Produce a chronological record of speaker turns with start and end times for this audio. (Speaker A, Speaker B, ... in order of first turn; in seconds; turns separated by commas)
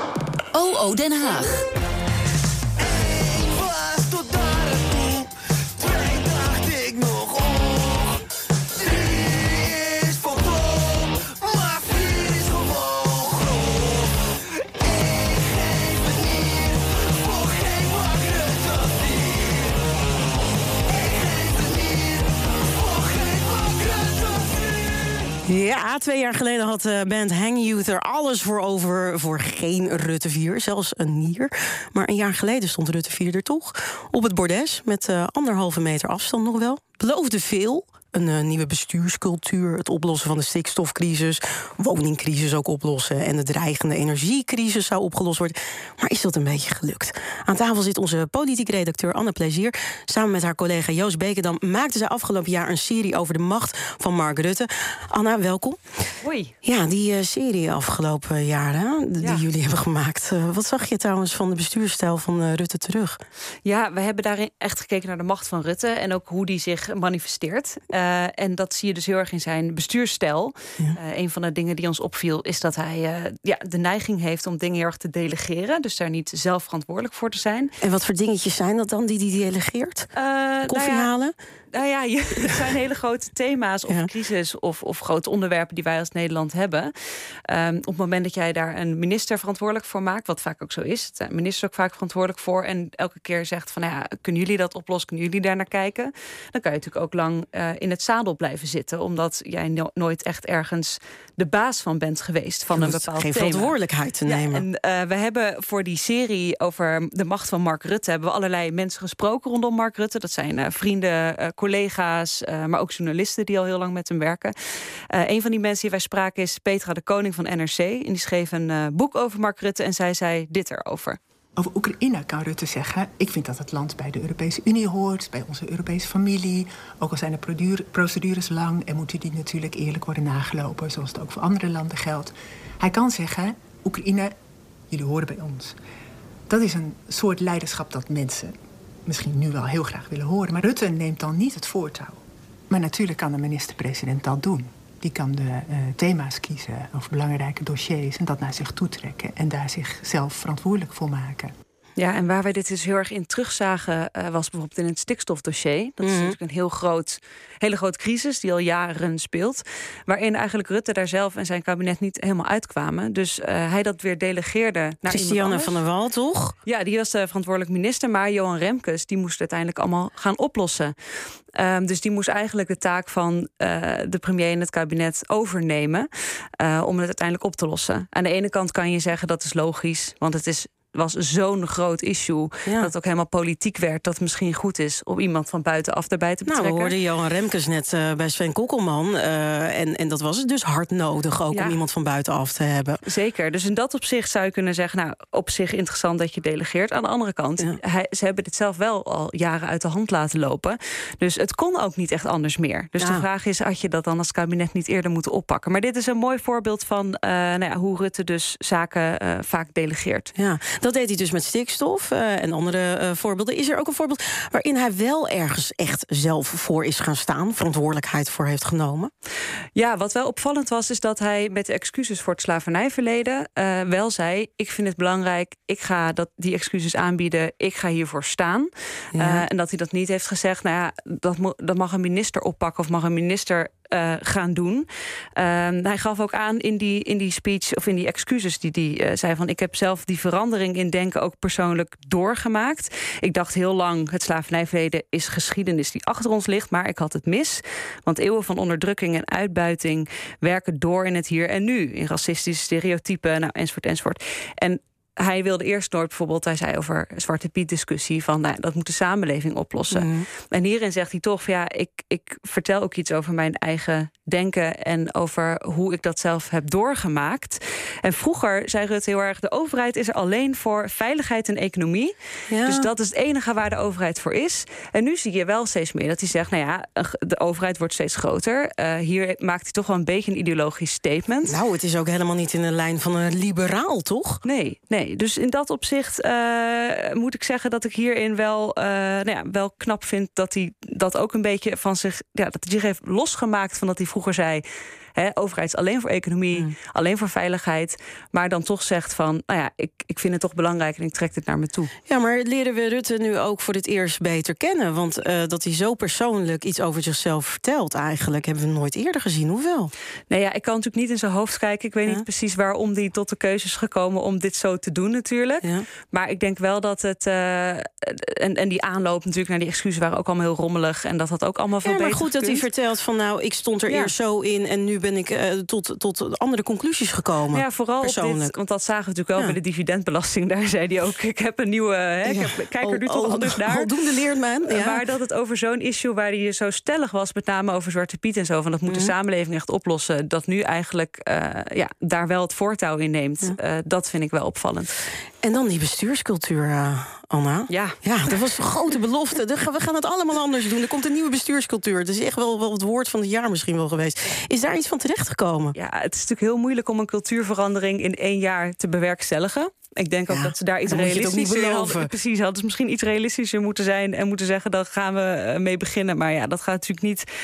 Speaker A: 0.5-1.7, Speaker A: 3.5-4.3, Speaker A: 6.2-7.2, Speaker A: 11.2-12.4, Speaker A: 24.3-24.8, Speaker B: 25.3-55.8, Speaker C: 56.2-56.6, Speaker B: 56.6-63.2, Speaker C: 59.2-59.5, Speaker C: 63.6-77.8, Speaker B: 77.8-80.1, Speaker C: 80.2-81.1, Speaker B: 80.7-81.3, Speaker C: 81.7-86.9, Speaker C: 87.5-114.5, Speaker B: 102.7-104.7, Speaker C: 115.1-121.2, Speaker D: 121.6-134.3, Speaker D: 134.9-135.8, Speaker D: 136.5-138.5, Speaker D: 139.1-142.2, Speaker D: 142.7-151.5, Speaker C: 152.0-165.8, Speaker B: 156.0-156.4, Speaker B: 165.1-166.6, Speaker C: 166.7-170.9, Speaker C: 171.6-176.1, Speaker C: 176.6-187.0, Speaker B: 182.7-182.9, Speaker B: 186.4-193.0, Speaker C: 191.5-191.8, Speaker C: 193.0-210.3, Speaker B: 203.0-203.2, Speaker B: 210.3-219.1, Speaker C: 219.8-281.6, Speaker B: 229.1-229.4, Speaker B: 259.9-260.3, Speaker B: 272.5-272.9, Speaker B: 281.4-284.4, Speaker C: 284.4-294.6, Speaker C: 295.1-301.9, Speaker B: 302.1-309.9, Speaker C: 310.3-322.7, Speaker B: 321.8-328.5, Speaker C: 323.9-324.1, Speaker C: 327.5-334.0, Speaker B: 332.2-335.0, Speaker C: 334.6-345.0, Speaker B: 338.9-339.1, Speaker B: 345.4-355.8, Speaker C: 347.7-348.0, Speaker C: 355.7-367.3, Speaker B: 360.3-362.1